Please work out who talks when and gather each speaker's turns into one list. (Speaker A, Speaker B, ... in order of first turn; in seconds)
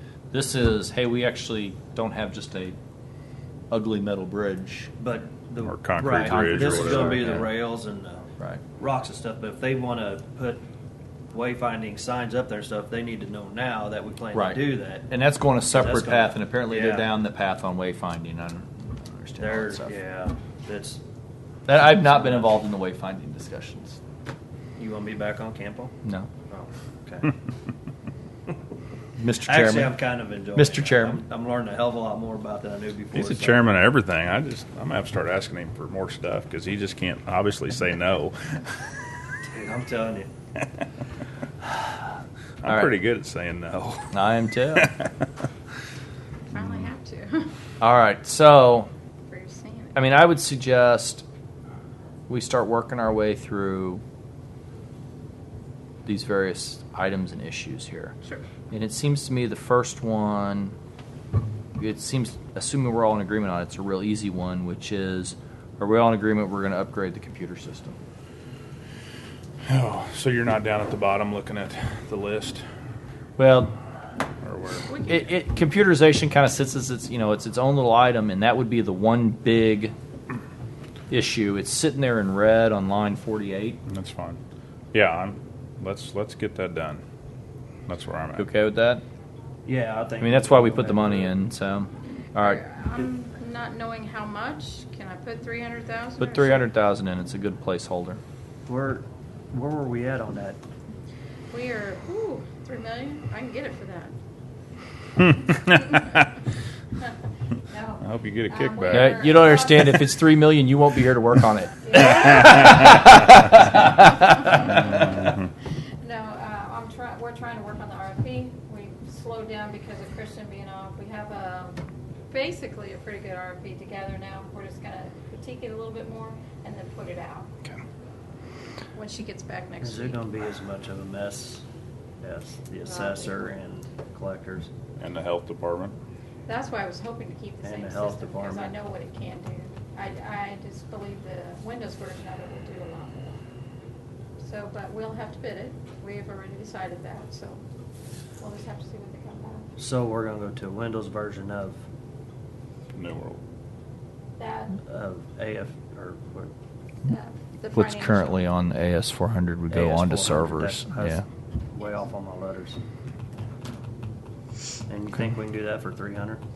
Speaker A: 0.3-2.8, 3.7-4.9, 6.1-7.5, 14.3-19.9, 21.7-24.0, 29.2-30.0, 30.6-31.2, 44.1-44.9, 47.8-48.9, 50.0-51.2, 52.3-54.0, 56.0-58.1, 58.7-60.8, 61.8-68.0, 73.4-73.8, 75.1-79.9, 81.1-83.8, 88.4-89.0, 90.2-92.6, 96.2-98.2, 108.9-114.9, 157.7-161.2
Speaker B: 5.0-10.6, 11.3-15.1, 15.7-17.1, 19.4-21.0, 24.8-25.9, 26.5-27.3, 29.4-33.6, 39.5-40.3, 89.7-91.4, 98.7-100.6, 129.8-131.7, 132.2-134.7, 137.6-138.8, 149.8-151.8, 154.8-156.5, 159.7-162.8, 164.9-166.4
Speaker C: 5.6-7.3, 33.1-39.0, 42.6-44.1, 44.7-45.1, 69.7-72.6, 74.4-74.9, 83.9-84.4, 84.9-87.0, 87.9-88.5, 105.2-106.3, 108.0-109.3, 135.0-135.9, 152.9-153.4
Speaker D: 46.5-47.5, 49.3-50.0, 74.9-75.3, 92.4-96.7, 101.5-104.2, 107.7-110.2, 111.8-113.0, 114.0-115.3, 116.0-121.8, 122.3-127.5, 128.9-130.2, 132.8-133.5, 136.5-143.4, 144.4-147.6, 148.4-149.7, 154.4-154.8, 157.1-158.4